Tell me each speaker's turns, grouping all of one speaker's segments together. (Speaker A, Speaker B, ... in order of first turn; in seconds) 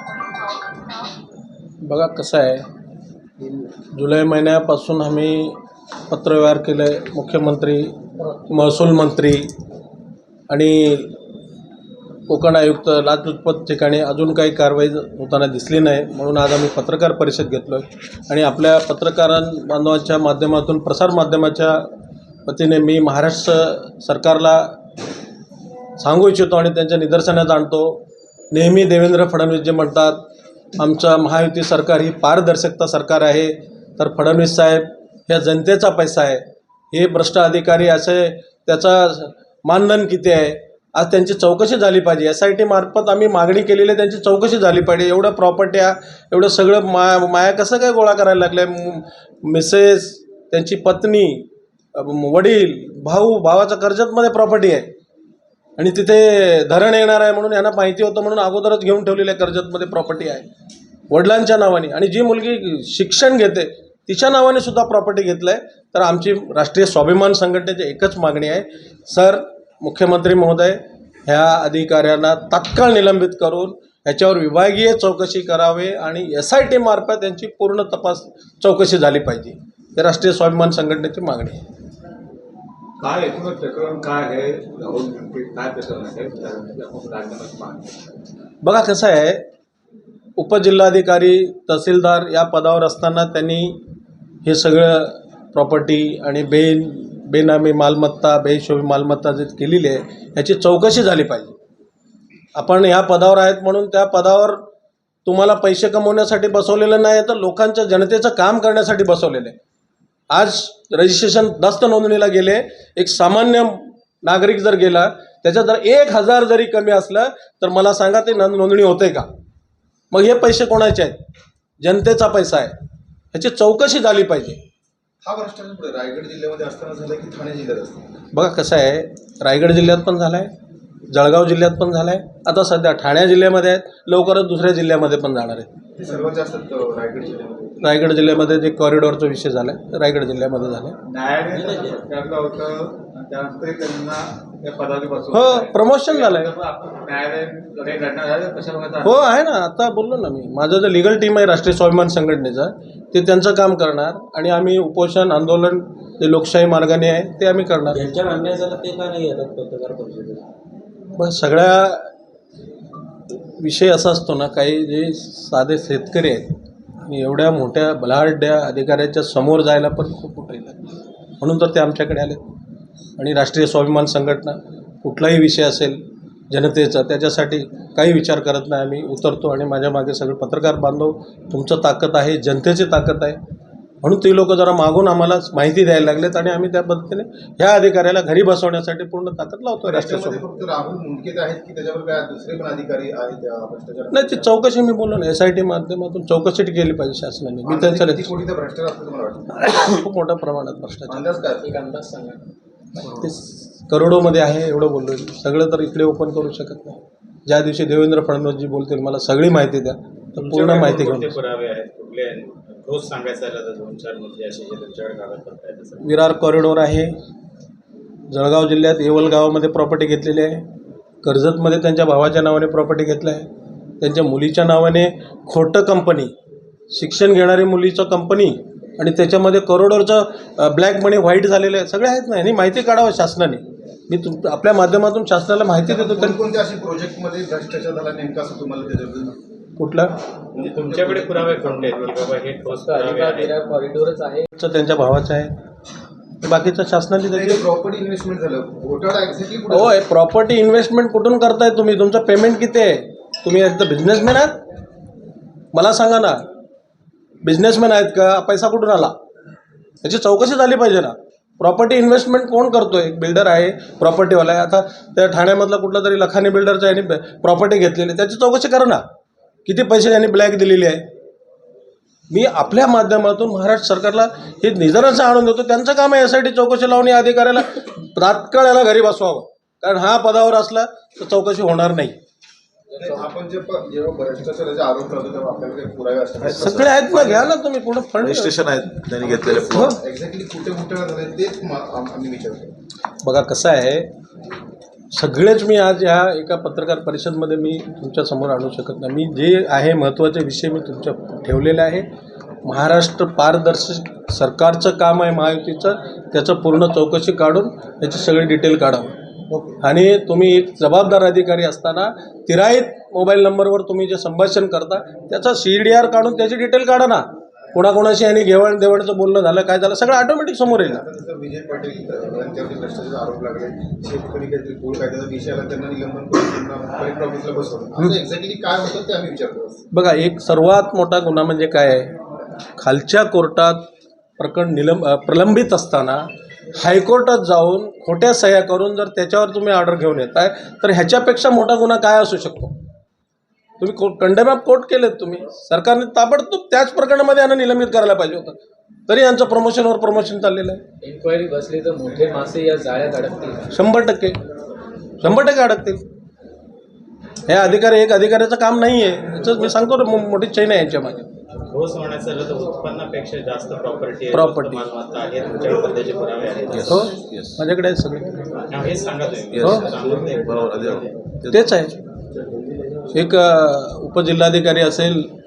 Speaker A: 1.8-2.6, 3.9-5.6, 6.1-9.5, 10.5-11.2, 12.3-21.9, 22.4-24.8, 26.0-30.2, 30.8-54.9, 55.8-60.5, 61.1-81.6, 88.6-89.5, 90.4-93.8, 94.4-101.5, 102.5-104.6, 105.2-109.5, 110.3-119.3, 120.1-121.2, 121.8-122.7, 123.3-124.6, 128.3-130.5, 131.1-135.7, 137.8-141.0, 145.3-146.5, 149.0-158.0, 161.2-162.1, 163.6-172.4, 173.2-183.4, 184.0-190.4, 194.1-198.3, 199.6-201.2, 203.0-211.3, 216.0-217.2, 218.3-220.7, 221.2-223.5, 224.0-226.3, 226.9-236.4, 239.8-240.2, 244.6-245.5, 246.4-247.7, 249.7-254.6, 255.7-256.4, 257.4-259.1, 260.0-269.0, 269.6-271.1, 272.3-282.2, 286.5-288.6, 289.7-290.0, 293.2-294.1, 295.1-302.1, 302.6-309.1, 309.8-321.0, 329.9-332.1, 332.8-333.9, 334.4-342.7, 343.8-348.6, 349.1-350.8, 353.7-354.4, 355.2-356.0, 357.5-361.3, 364.3-364.8, 366.9-368.6, 369.6-369.9, 371.5-372.0, 373.1-375.3
Speaker B: 83.0-87.8, 141.2-145.4, 146.6-148.9
Speaker C: 125.2-128.1, 136.0-137.9, 189.8-194.5, 197.6-199.6, 201.1-201.7, 235.8-239.3, 240.5-242.3, 247.3-249.9, 283.0-286.9, 289.2-292.7, 309.5-309.8, 320.8-329.8
Speaker D: 141.1-142.7, 144.8-145.3, 146.2-146.4, 147.8-149.0, 157.9-160.4, 201.6-202.4, 242.7-244.5, 351.0-353.7
Speaker E: 210.3-216.2, 240.6-243.5, 361.7-367.2, 368.7-371.3
Speaker F: 286.4-287.4, 288.2-289.9, 366.7-367.5, 369.5-371.7